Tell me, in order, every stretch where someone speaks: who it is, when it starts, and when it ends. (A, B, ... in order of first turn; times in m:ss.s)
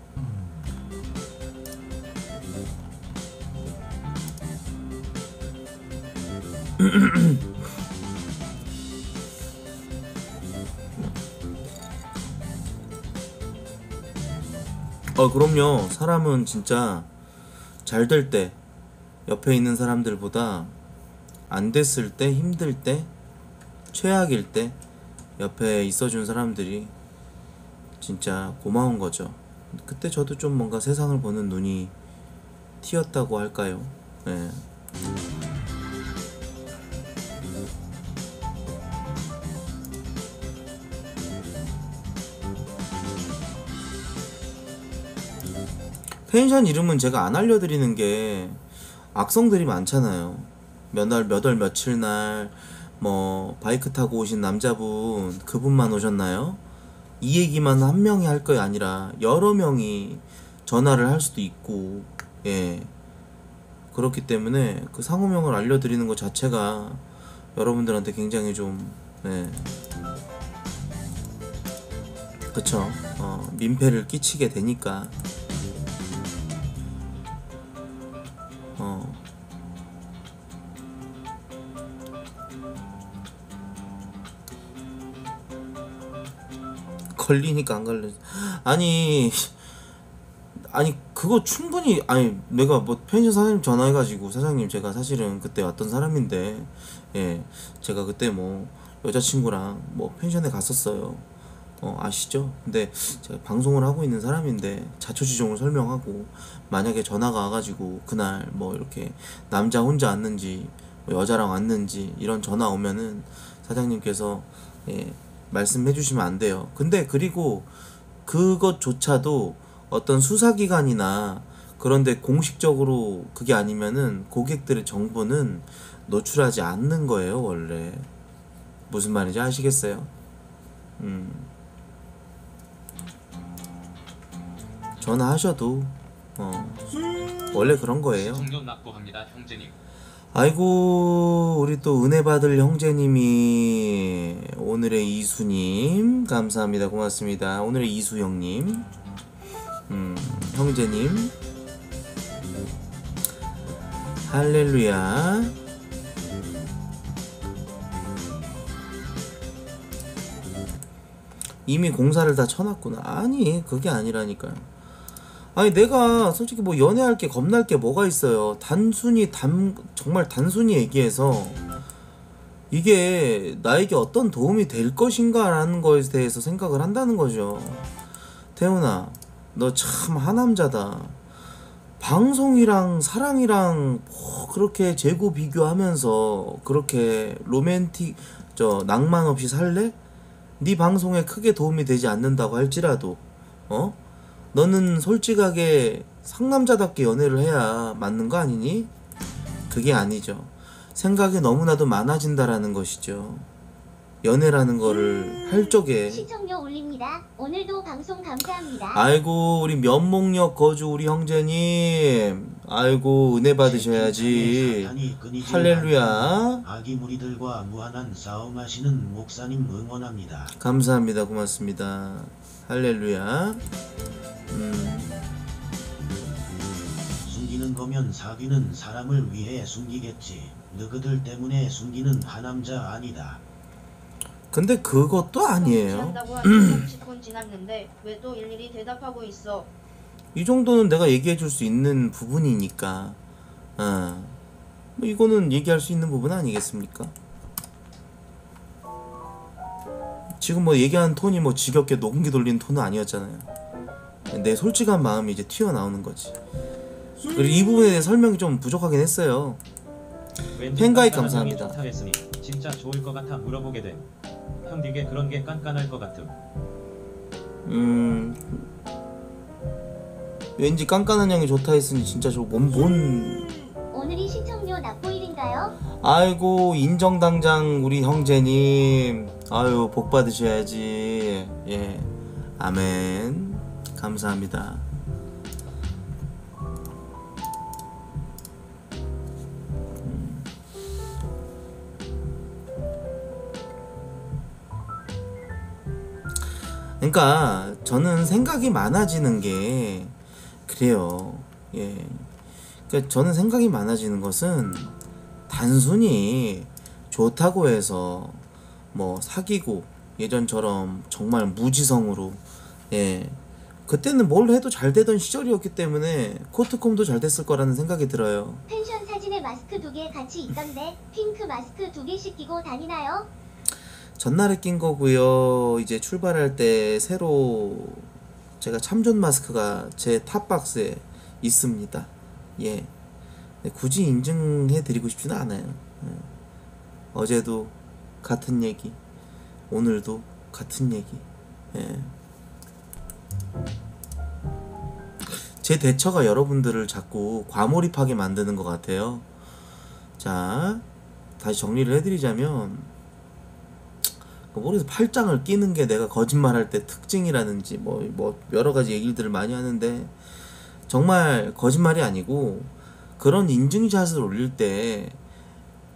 0:06.8-0:07.4 A
0:15.2-0:17.1 A
0:17.8-0:18.6 A
0:19.3-0:20.7 A
0:21.5-0:23.1 A
0:23.9-0:24.8 A
0:25.4-0:26.9 A
0:28.0-0:31.9 A
0:32.8-0:34.6 A
0:46.3-0:48.6 A
0:49.1-0:56.6 A
0:57.2-1:02.9 A
1:03.9-1:07.0 A
1:07.6-1:09.7 A
1:12.5-1:15.2 A
1:18.8-1:19.2 A
1:27.2-1:29.6 A
1:30.6-1:41.2 A
1:41.8-1:57.7 A
1:58.2-2:08.1 A
2:08.9-2:10.1 A
2:11.0-2:11.5 A
2:15.0-2:16.8 A
2:17.5-2:18.5 A
2:18.1-2:19.8 B
2:20.3-2:28.9 A
2:29.9-2:31.3 A
2:34.3-2:35.6 A
2:41.7-2:44.7 A
2:45.6-2:51.6 A
2:52.7-2:57.9 A
2:58.6-3:01.2 A
3:02.0-3:10.0 A
3:10.6-3:14.0 A
3:14.5-3:18.9 A
3:19.7-3:23.5 A
3:24.2-3:26.2 A
3:26.1-3:29.0 C
3:28.9-3:36.6 A
3:33.6-3:40.5 D
3:40.5-3:43.6 A
3:44.5-3:45.1 A
3:47.2-3:53.4 D
3:54.5-3:56.9 A
3:55.5-3:59.7 E
4:00.4-4:03.2 A
4:03.8-4:04.4 A
4:05.0-4:07.1 A
4:10.4-4:13.5 A
4:14.3-4:16.4 A
4:17.3-4:19.6 A
4:20.6-4:24.1 B
4:20.8-4:21.8 A
4:24.6-4:26.4 B
4:27.7-4:28.6 A
4:30.6-4:33.5 A
4:33.9-4:35.8 C
4:35.9-4:44.9 A
4:50.0-4:50.5 A
4:57.0-5:00.1 A
5:00.7-5:02.3 A
5:02.9-5:04.9 A
5:05.5-5:08.4 A
5:08.9-5:18.6 A
5:18.7-5:23.3 C
5:24.2-5:28.1 A
5:28.6-5:32.9 A
5:33.6-5:36.3 A
5:37.1-5:39.0 A
5:39.7-5:42.1 A
5:45.3-5:49.2 A
5:50.2-5:50.8 A
5:51.4-5:52.9 A
5:54.5-6:00.1 A
6:00.9-6:05.2 A